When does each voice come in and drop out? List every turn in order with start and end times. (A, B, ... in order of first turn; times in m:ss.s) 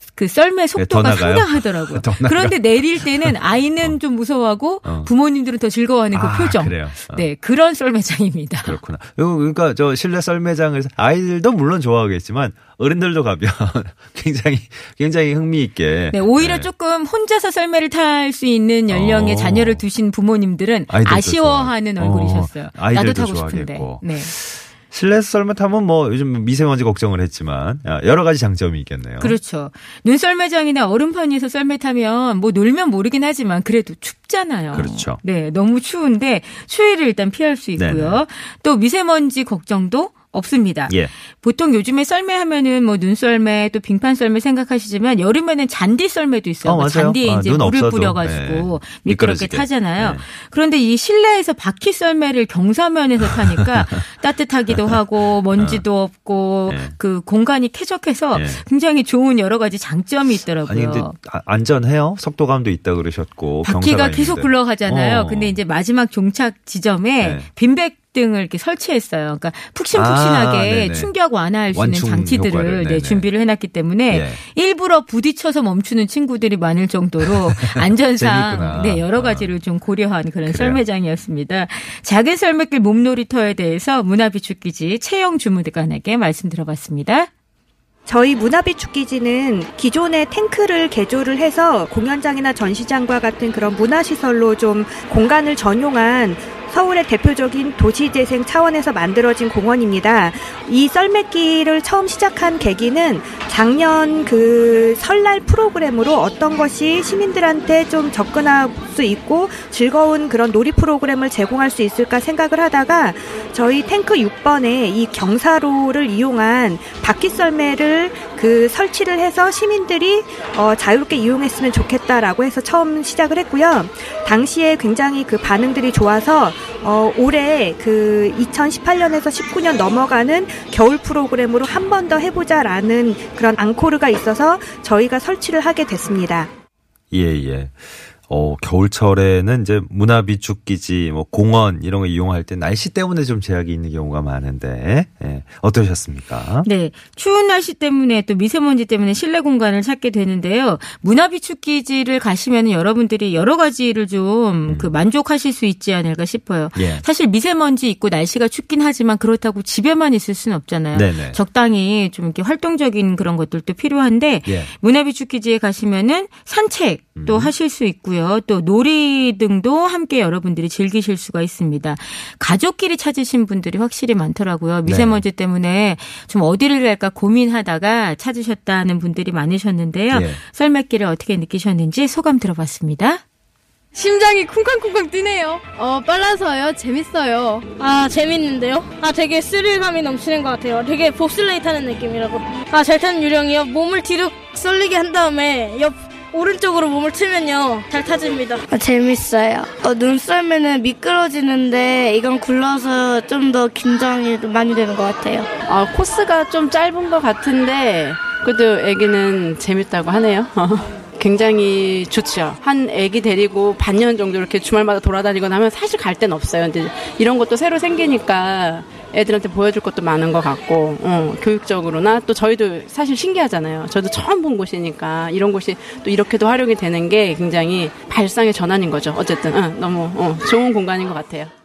0:00.2-0:08.8 A
0:00.8-0:04.0 B
0:04.8-0:05.1 B
0:06.1-0:07.3 B
0:08.6-0:16.7 B
0:16.1-0:24.3 A
0:18.9-0:19.8 B
0:20.9-0:29.4 B
0:29.2-1:01.1 A
0:34.7-0:35.2 B
0:37.8-0:38.2 B
0:46.6-0:50.2 B
0:53.2-0:54.0 B
0:55.6-0:55.8 B
0:56.7-0:57.0 B
0:58.3-0:58.6 B
1:00.6-1:05.6 B
1:03.6-1:27.3 A
1:07.2-1:07.5 B
1:09.9-1:11.1 B
1:11.7-1:13.3 B
1:14.1-1:14.4 B
1:17.2-1:19.6 B
1:20.5-1:20.8 B
1:28.1-2:16.5 C
2:17.1-2:26.7 B
2:26.6-3:03.2 A
2:34.7-2:35.0 B
2:36.8-2:37.0 B
2:40.9-2:41.4 B
2:44.5-2:44.7 B
2:47.2-2:47.5 B
2:54.8-2:55.2 B
3:00.1-3:00.4 B
3:04.0-3:07.7 D
3:07.8-3:18.6 E
3:18.7-3:25.5 F
3:25.7-3:51.5 G